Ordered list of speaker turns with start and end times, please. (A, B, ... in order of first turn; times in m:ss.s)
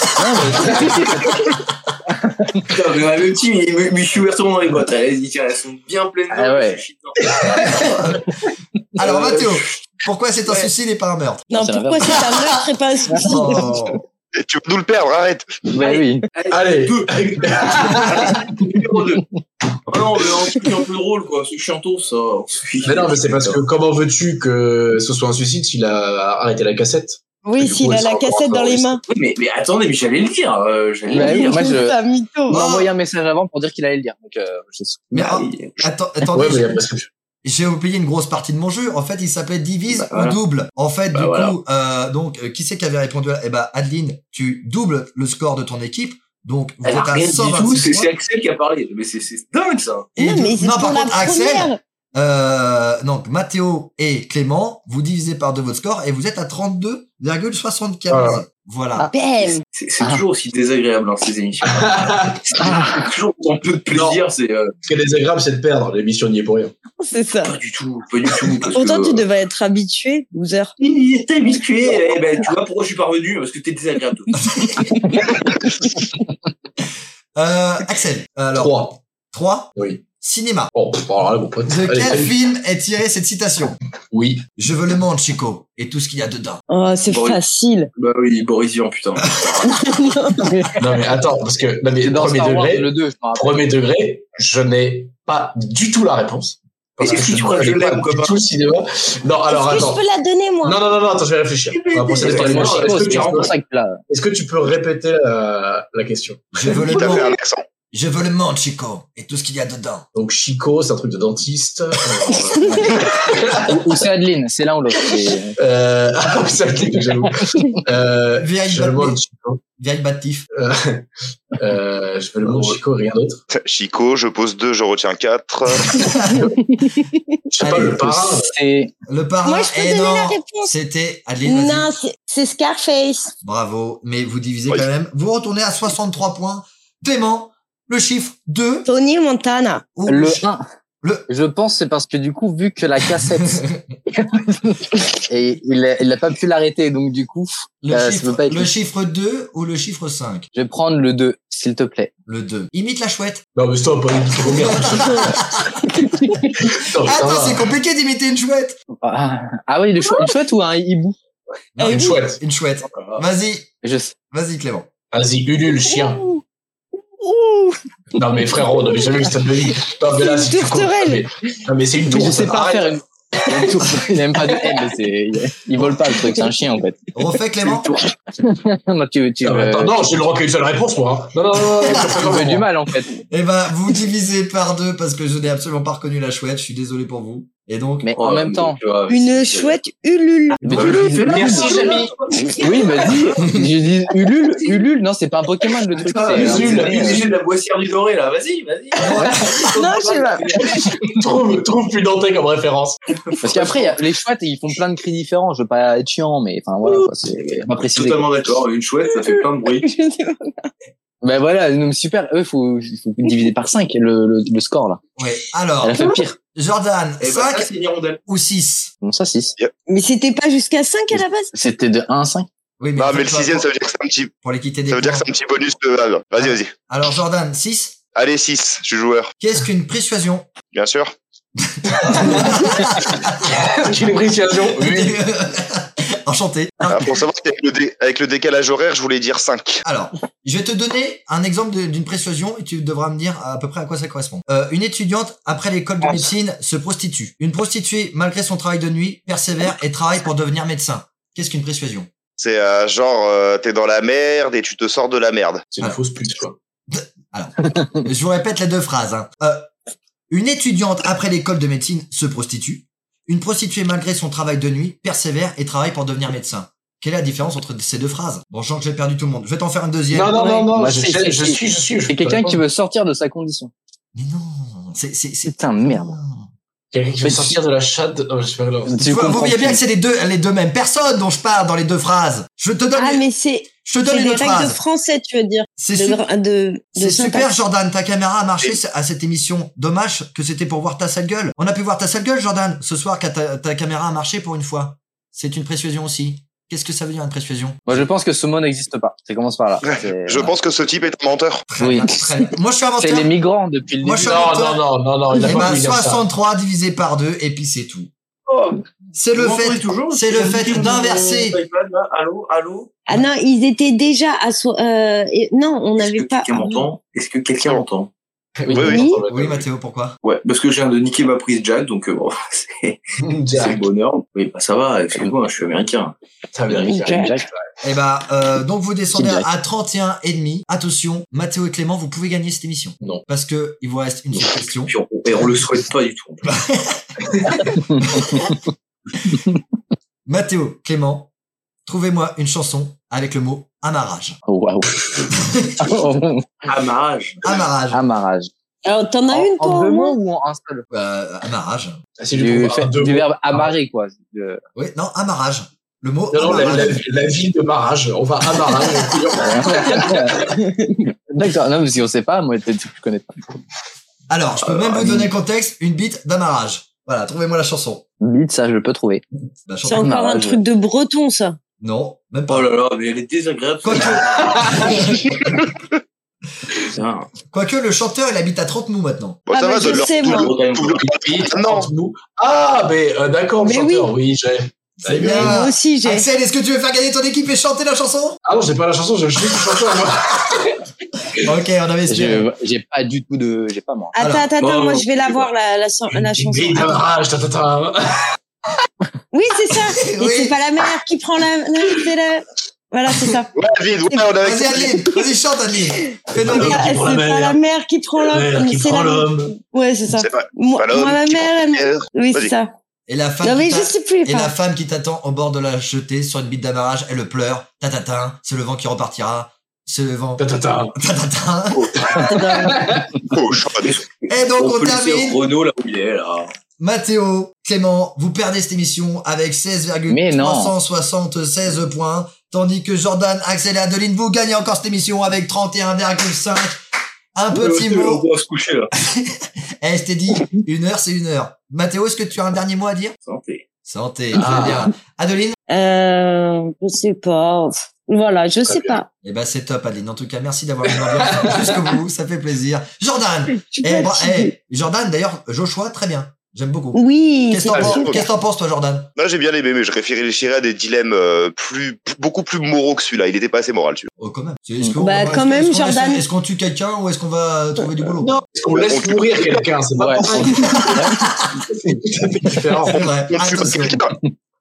0:00.2-0:01.4 A
0:00.2-0:00.6 B
0:00.7-0:01.4 C
0:02.1-0:02.7 A
0:02.7-0:08.1 C
0:06.3-0:06.8 A
0:07.7-0:07.9 B
0:09.0-0:11.5 B
0:09.0-0:09.9 C
0:10.5-0:10.7 C
0:11.5-0:13.7 D
0:11.5-0:12.2 A
0:13.2-0:14.0 B
0:14.4-0:15.6 E
0:15.7-0:16.3 A
0:15.8-0:19.2 C
0:16.5-0:18.3 F
0:19.9-0:23.6 C
0:22.8-0:29.0 F
0:27.4-0:29.0 D
0:29.1-0:31.7 C
0:31.1-0:32.0 A
0:31.1-0:32.6 D
0:32.5-0:35.1 A
0:32.5-0:32.9 B
0:35.1-0:35.9 C
0:35.1-0:36.8 B
0:36.3-0:37.1 F
0:37.4-0:48.1 B
0:39.9-0:40.4 C
0:41.1-0:41.5 C
0:46.8-0:50.1 C
0:50.2-0:59.1 B
0:50.2-0:51.8 D
0:58.1-0:58.4 F
0:59.1-0:59.6 D
0:59.7-1:04.7 C
1:01.7-1:02.4 F
1:02.6-1:03.0 A
1:03.9-1:04.2 F
1:04.8-1:06.7 F
1:07.0-1:07.5 D
1:07.4-1:09.2 C
1:08.7-1:10.7 D
1:10.8-1:14.5 C
1:14.5-1:14.9 B
1:15.2-1:15.4 C
1:17.4-1:18.8 B
1:18.6-1:19.0 F
1:19.3-1:20.7 B
1:19.8-1:20.0 F
1:20.7-1:22.4 F
1:21.7-1:23.8 B
1:24.1-1:24.5 F
1:24.6-1:26.6 B
1:26.7-1:27.9 D
1:27.1-1:27.4 C
1:28.0-1:29.7 C
1:29.6-1:30.7 D
1:30.8-1:40.0 F
1:32.0-1:33.7 A
1:37.0-1:38.4 C
1:39.5-1:40.8 D
1:40.6-1:43.6 F
1:41.7-1:43.4 C
1:42.3-1:44.0 A
1:44.1-1:46.8 F
1:46.5-1:47.3 B
1:46.9-1:47.6 E
1:47.9-1:50.0 B
1:50.1-1:54.0 F
1:52.6-1:53.0 A
1:53.6-1:55.6 A
1:55.0-1:59.6 F
1:58.4-1:59.2 B
1:59.8-2:00.4 B
2:00.5-2:03.4 F
2:03.5-2:06.2 E
2:06.0-2:06.4 B
2:07.5-2:08.5 F
2:07.6-2:08.2 B
2:07.8-2:08.9 A
2:09.1-2:11.9 B
2:09.4-2:10.7 D
2:11.4-2:13.3 D
2:13.4-2:18.9 B
2:18.9-2:19.8 D
2:20.0-2:20.4 B
2:20.1-2:20.6 A
2:21.0-2:21.3 B
2:21.3-2:28.7 A
2:23.1-2:23.8 B
2:27.8-2:30.5 B
2:30.6-2:32.1 A
2:32.3-2:33.4 B
2:33.6-2:35.4 F
2:34.6-2:35.7 B
2:35.0-2:35.3 D
2:36.6-2:37.7 F
2:37.0-2:38.8 B
2:39.0-2:41.2 A
2:41.8-2:43.7 B
2:41.8-2:42.4 F
2:42.9-2:43.2 C
2:43.8-2:44.2 A
2:44.3-2:44.9 B
2:45.1-2:46.3 F
2:46.0-2:46.4 D
2:47.2-2:47.8 D
2:48.2-2:54.8 F
2:50.2-2:51.2 D
2:52.1-2:57.1 A
2:55.8-2:56.4 F
2:57.2-2:58.0 B
2:58.3-3:00.0 A
2:59.4-3:02.7 F
3:01.8-3:03.2 A
3:01.9-3:02.4 B
3:03.3-3:08.1 B
3:08.0-3:08.8 A
3:08.2-3:09.8 C
3:09.1-3:12.0 D
3:10.6-3:11.8 A
3:10.7-3:12.1 F
3:10.7-3:13.3 C
3:12.6-3:17.2 A
3:16.0-3:16.9 B
3:16.3-3:20.8 C
3:16.3-3:17.2 F
3:19.0-3:19.8 B
3:19.7-3:20.8 D
3:21.1-3:23.0 F
3:23.2-3:24.0 C
3:23.4-3:28.3 A
3:27.8-3:29.9 C
3:29.1-3:30.7 D
3:31.2-3:35.0 A
3:35.2-3:37.7 B
3:35.8-3:36.4 A
3:37.2-3:38.2 C
3:38.3-3:38.9 B
3:39.0-3:39.6 A
3:39.9-3:41.5 D
3:41.5-3:42.5 A
3:42.8-3:43.7 B
3:43.0-3:44.3 E
3:44.4-3:45.3 B
3:44.9-3:46.7 E
3:46.4-3:48.0 B
3:48.2-3:49.3 E
3:49.4-3:50.5 B
3:50.8-3:51.1 E
3:51.6-3:53.6 B
3:53.4-3:55.2 F
3:54.5-3:57.1 B
3:56.8-3:59.8 E
3:59.8-4:12.1 B
4:12.4-4:15.7 E
4:15.7-4:16.6 F
4:16.9-4:19.7 B
4:20.3-4:30.5 B
4:30.1-4:32.6 F
4:30.4-4:33.7 A
4:34.2-4:36.5 B
4:35.4-4:36.2 A
4:36.9-4:39.4 F
4:37.2-4:37.6 A
4:38.9-4:39.8 A
4:39.0-4:43.2 B
4:43.0-4:47.5 D
4:43.8-4:44.8 B
4:45.8-4:46.2 B
4:47.0-4:58.1 B
4:57.9-5:00.5 A
4:59.8-5:01.7 E
5:01.7-5:03.3 B
5:01.8-5:04.4 A
5:04.0-5:04.8 B
5:04.2-5:06.2 F
5:05.4-5:08.1 B
5:08.5-5:12.9 C
5:09.2-5:11.6 B
5:13.1-5:16.9 D
5:16.0-5:18.1 C
5:18.6-5:19.6 F
5:18.7-5:19.1 E
5:18.9-5:19.2 D
5:19.3-5:20.2 B
5:20.2-5:26.2 C
5:23.2-5:23.8 F
5:26.5-5:27.4 F
5:26.7-5:27.3 C
5:26.9-5:27.4 A
5:27.8-5:34.9 B
5:29.1-5:29.5 A
5:34.9-5:36.5 C
5:36.4-5:37.0 B
5:37.9-5:38.6 A
5:38.0-5:38.5 B
5:40.3-5:41.3 B
5:41.9-5:44.4 B
5:44.5-5:46.5 A
5:45.3-5:46.0 B
5:46.7-5:47.4 C
5:47.4-5:48.0 B
5:47.9-5:48.5 A
5:48.8-5:50.2 D
5:49.3-5:50.9 A
5:50.9-5:52.0 B
5:52.2-5:53.7 F
5:52.3-5:54.6 A
5:54.8-5:57.1 B
5:56.3-6:00.2 F
5:59.4-6:00.5 A
5:59.7-6:01.0 D
6:01.0-6:03.6 A
6:04.3-6:08.1 B
6:04.6-6:05.3 A
6:08.2-6:09.2 A
6:09.7-6:10.1 B
6:09.8-6:11.6 D
6:10.0-6:10.6 A
6:11.8-6:12.7 B
6:12.5-6:15.5 C
6:13.8-6:15.6 B
6:16.9-6:17.3 C
6:17.5-6:19.4 B
6:19.5-6:21.9 E
6:19.5-6:20.5 D
6:19.9-6:21.0 C
6:21.0-6:25.5 F
6:23.6-6:24.1 D
6:25.0-6:28.4 B
6:25.2-6:26.3 D
6:28.4-6:30.8 F
6:31.4-6:32.5 B
6:32.1-6:34.1 A
6:34.1-6:37.0 D
6:34.2-6:34.5 B
6:34.6-6:35.0 F
6:34.7-6:35.4 C
6:36.1-6:38.3 F
6:39.3-6:43.5 D
6:40.0-6:40.6 B
6:43.6-6:44.9 E
6:44.1-6:45.2 D
6:44.4-6:47.1 B
6:46.4-6:47.6 F
6:46.4-6:52.7 D
6:48.2-6:49.6 F
6:50.2-6:52.5 E
6:53.1-7:02.1 B
6:53.4-6:54.5 D
7:00.4-7:01.0 F
7:02.0-7:03.1 F
7:02.2-7:02.9 D
7:03.2-7:04.0 E
7:03.8-7:06.5 C
7:04.3-7:05.4 B
7:06.8-7:16.8 B
7:10.1-7:10.7 A
7:17.4-7:18.2 B
7:17.5-7:18.9 C
7:19.0-7:23.2 B
7:23.2-7:23.6 C
7:23.9-7:25.6 B
7:24.4-7:24.9 F
7:25.7-7:29.1 D
7:28.7-7:29.0 F
7:29.2-7:39.1 B
7:30.9-7:31.6 F
7:33.7-7:34.5 D
7:37.0-7:38.2 D
7:37.9-7:38.3 E
7:39.2-7:44.1 E
7:44.2-7:48.4 B
7:45.0-7:46.2 D
7:48.2-7:51.2 F
7:48.7-7:49.6 E
7:50.0-7:51.2 A
7:50.6-7:51.4 B
7:51.7-7:53.0 F
7:52.9-7:54.0 B
7:53.3-7:54.2 E